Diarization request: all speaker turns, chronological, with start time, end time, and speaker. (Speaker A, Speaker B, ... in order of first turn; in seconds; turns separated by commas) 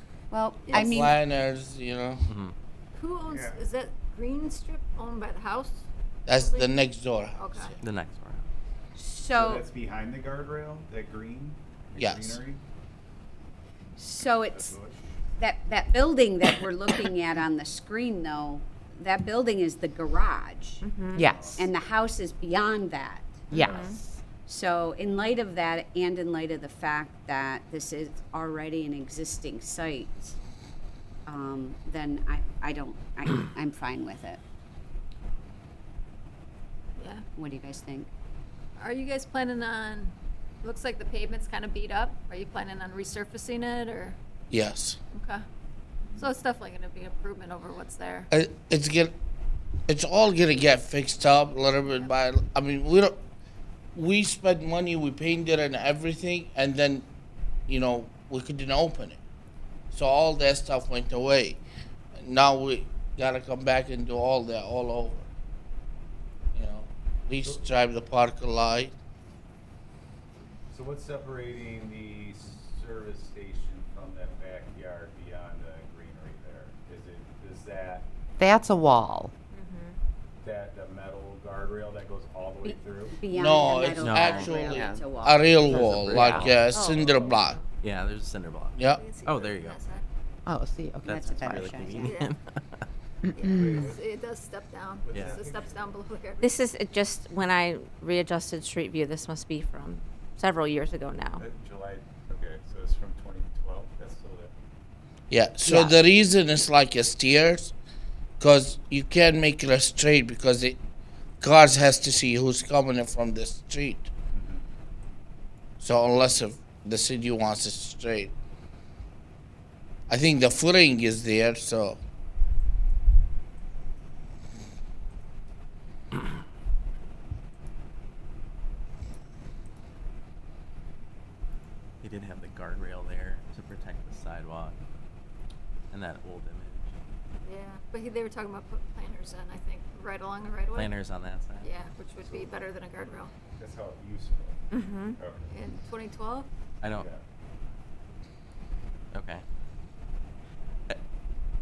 Speaker A: 0.3-1.2, Speaker B: 0.7-1.0, Speaker C: 0.7-2.3, Speaker D: 2.3-2.5, Speaker B: 2.9-6.8, Speaker E: 3.3-3.6, Speaker C: 6.3-7.7, Speaker B: 7.4-7.8, Speaker D: 7.8-8.4, Speaker A: 9.0-9.7, Speaker E: 9.3-12.6, Speaker C: 12.0-12.4, Speaker A: 14.0-14.8, Speaker E: 14.5-15.2, Speaker A: 15.4-20.8, Speaker F: 20.8-21.3, Speaker G: 21.1-21.5, Speaker E: 21.2-21.7, Speaker A: 21.5-23.5, Speaker G: 23.5-24.0, Speaker E: 23.5-23.9, Speaker F: 23.6-24.0, Speaker A: 24.4-30.4, Speaker A: 31.3-34.4, Speaker B: 37.0-37.2, Speaker A: 37.4-38.1, Speaker B: 38.8-44.2, Speaker C: 44.5-45.0, Speaker B: 45.1-45.4, Speaker B: 46.2-48.3, Speaker C: 48.3-49.1, Speaker C: 49.9-53.2, Speaker C: 54.0-57.1, Speaker C: 57.7-59.2, Speaker C: 59.9-61.6, Speaker C: 62.2-65.3, Speaker C: 66.5-68.9, Speaker E: 70.7-78.1, Speaker G: 78.4-79.3, Speaker F: 79.5-80.0, Speaker E: 80.4-83.2, Speaker A: 82.6-85.9, Speaker C: 83.3-87.6, Speaker D: 84.0-84.6, Speaker G: 84.7-85.1, Speaker D: 85.6-86.6, Speaker G: 86.1-86.5, Speaker F: 86.7-87.7, Speaker D: 87.8-89.8, Speaker B: 88.9-90.0, Speaker G: 90.5-91.6, Speaker D: 91.1-92.8, Speaker A: 91.1-92.2, Speaker B: 91.9-92.3, Speaker B: 93.3-96.7, Speaker E: 93.5-94.0, Speaker E: 95.1-96.0, Speaker D: 95.1-95.4, Speaker F: 96.4-101.4, Speaker E: 101.4-104.5, Speaker C: 105.3-107.7, Speaker G: 105.7-105.9, Speaker C: 108.4-110.8, Speaker C: 111.4-114.1, Speaker E: 114.3-114.6, Speaker C: 115.8-118.3, Speaker C: 120.1-122.0, Speaker D: 132.0-134.8, Speaker D: 135.9-136.9, Speaker B: 137.4-140.9, Speaker D: 140.7-141.7, Speaker B: 141.6-143.3, Speaker E: 142.2-142.6, Speaker E: 143.6-144.6, Speaker F: 144.7-145.2, Speaker E: 145.2-145.5, Speaker B: 145.5-146.5, Speaker D: 146.8-147.1, Speaker E: 146.9-147.2, Speaker D: 149.1-149.4